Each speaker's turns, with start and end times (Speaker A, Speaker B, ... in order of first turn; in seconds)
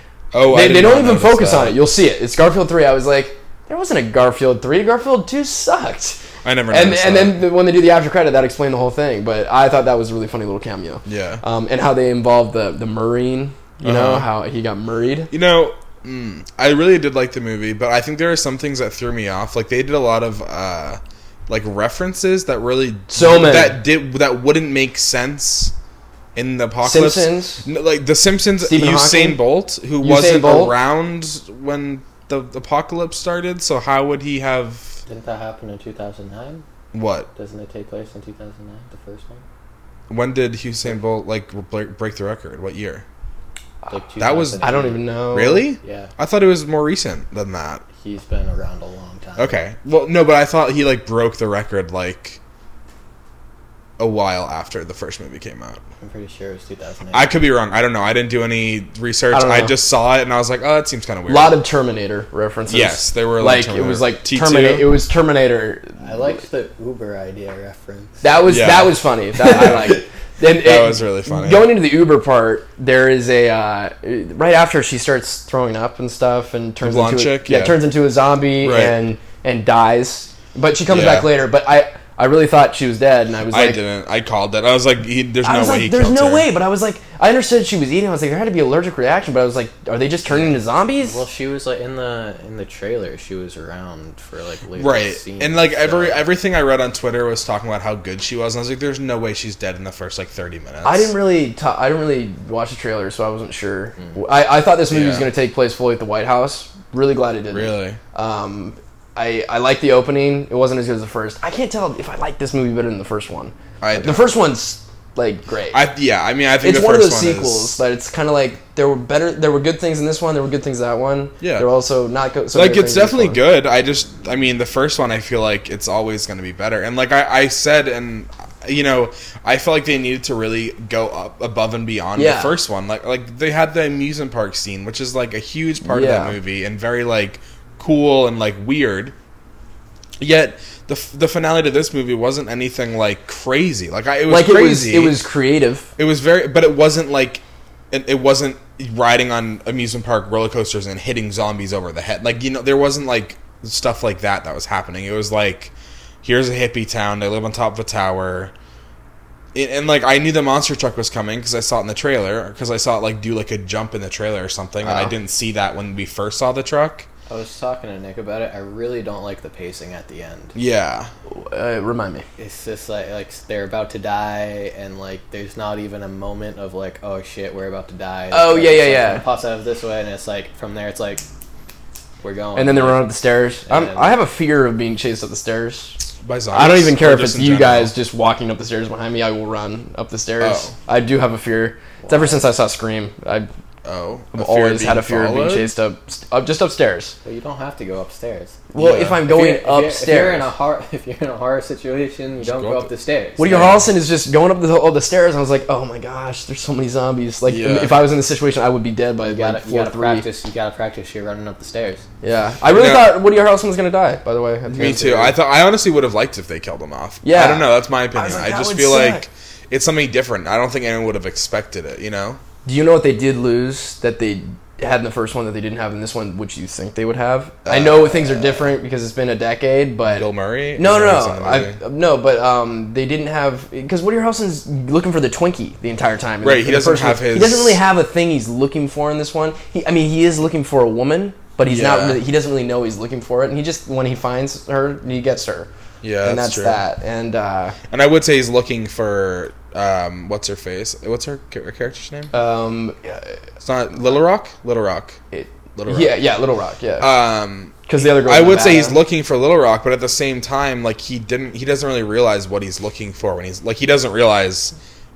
Speaker A: 0.3-1.8, 6.4-7.5, 11.0-11.4, 13.8-14.3, 15.3-25.7, 26.3-35.0, 36.9-37.3, 40.1-43.0, 44.2-44.8, 45.3-47.8, 49.4-52.4, 54.0-55.8, 57.1-61.6, 62.7-64.9, 68.5-69.9, 70.5-71.7, 76.8-77.8, 78.6-79.0, 80.9-81.3, 83.5-86.5, 94.8-101.1, 104.9-105.3, 107.5-108.0, 113.8-114.3, 115.7-117.8, 121.4-121.7, 122.5-139.1, 140.2-145.2, 146.0-158.5, 159.5-167.1, 170.5-171.1, 186.2-187.9, 190.4-190.7, 193.8-195.7, 198.8-199.2, 202.4-202.9, 203.5-203.8, 207.4-208.0, 212.7-213.2, 214.7-222.4, 227.6-228.7, 230.1-231.8, 236.4-237.8, 241.7-242.2, 246.0-246.8, 247.9-252.3, 253.6-255.2, 255.8-256.2, 257.0-264.7
Speaker B: 0.4-15.3, 23.1-23.8, 26.8-27.6, 28.6-29.5, 30.0-30.8, 44.6-45.7, 59.3-59.8, 61.3-66.0, 68.2-83.8, 85.4-91.2, 100.8-115.8, 116.6-123.4, 132.2-132.5, 135.8-136.3, 144.3-145.9, 171.3-172.2, 178.3-179.2, 182.6-186.0, 186.5-193.5, 194.3-197.2, 198.7-200.5, 203.4-210.2, 212.2-215.4, 217.2-219.2, 222.6-245.7, 246.2-247.8, 252.3-253.4, 255.3-257.1, 257.8-259.0
Speaker C: 35.1-36.6, 37.4-39.4, 43.9-45.0, 45.8-46.1, 48.0-49.6, 56.0-57.3, 66.0-68.3, 90.3-96.2, 167.3-170.5, 172.4-181.2, 182.2-183.1, 183.7-184.2, 192.0-192.4, 197.2-203.8, 209.2-212.0